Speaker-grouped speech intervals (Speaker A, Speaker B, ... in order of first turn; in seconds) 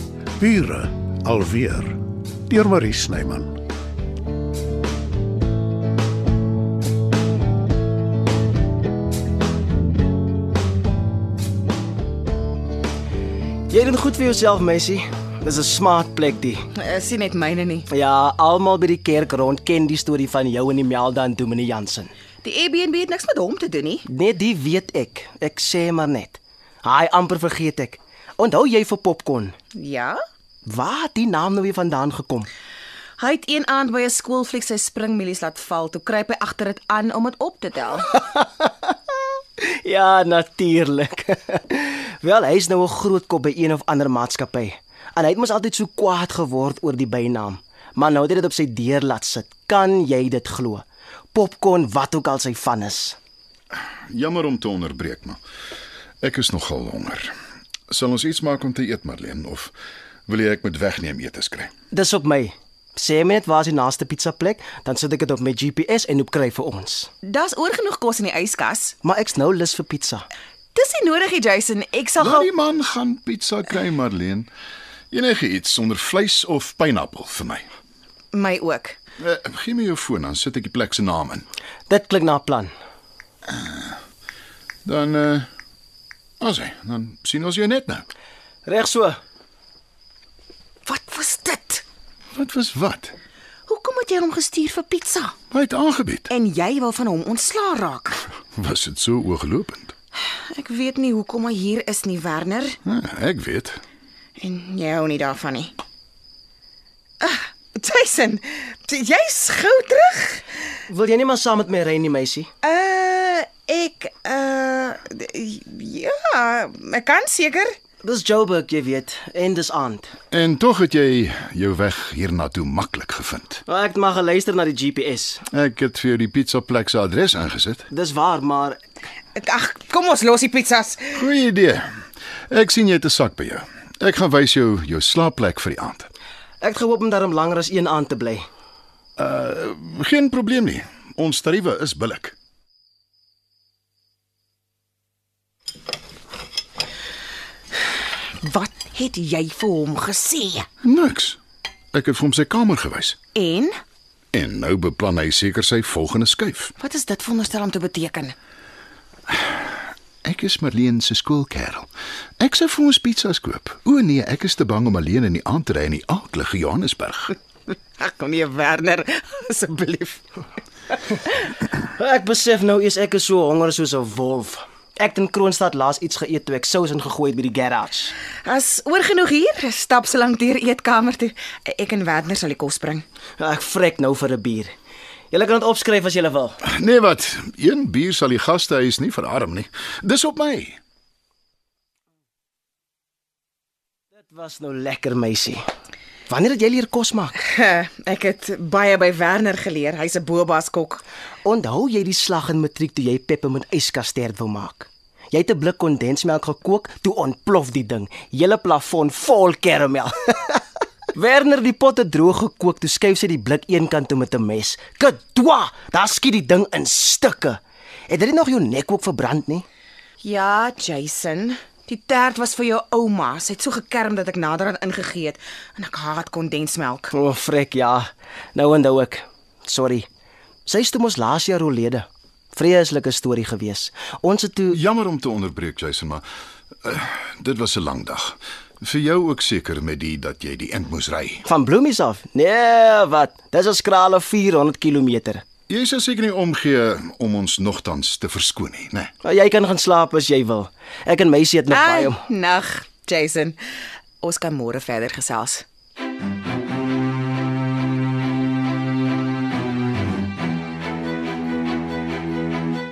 Speaker A: 0.4-2.0, 2.5-3.5
Speaker B: 13.7-16.6, 17.9-22.1, 24.1-29.5, 30.6-32.5, 38.1-38.9, 39.6-53.1, 61.9-67.1, 69.0-70.2, 81.9-82.7, 88.7-89.2, 110.9-112.5, 118.0-120.1, 123.7-125.4, 127.9-128.8, 136.6-138.4, 171.9-178.1, 183.4-184.7, 185.3-186.6, 194.1-195.6, 196.3-197.3, 201.4-210.6, 211.1-219.6, 227.1-230.1, 230.7-234.8, 241.4-245.4, 249.2-252.2
Speaker C: 16.7-17.9, 22.4-24.0, 29.7-30.2, 33.2-38.1, 67.2-69.0, 70.7-72.5, 78.3-79.0, 90.8-91.8, 93.7-95.3, 96.3-98.2, 100.2-102.8, 104.4-105.7, 107.2-110.4, 112.6-117.7, 129.3-131.2, 148.4-150.7, 153.3-153.7, 156.8-158.3, 168.0-170.2, 178.4-183.0, 197.4-201.0, 220.2-227.1, 251.7-253.6, 254.2-255.6
Speaker D: 54.1-55.4, 56.2-57.3, 57.9-59.7, 60.3-61.7, 72.2-74.5, 75.1-77.6, 79.2-81.5, 83.5-84.0, 84.8-85.5, 86.4-88.0, 92.3-93.1, 95.5-96.3, 98.5-99.9, 102.8-103.8, 120.3-123.6, 125.5-127.9, 131.2-131.8, 132.5-136.1, 139.2-142.3, 150.8-151.4, 151.9-153.2, 154.3-156.7, 159.3-159.7, 160.2-161.9, 162.4-167.3, 186.6-190.8, 234.7-236.2, 236.8-241.4, 245.7-249.1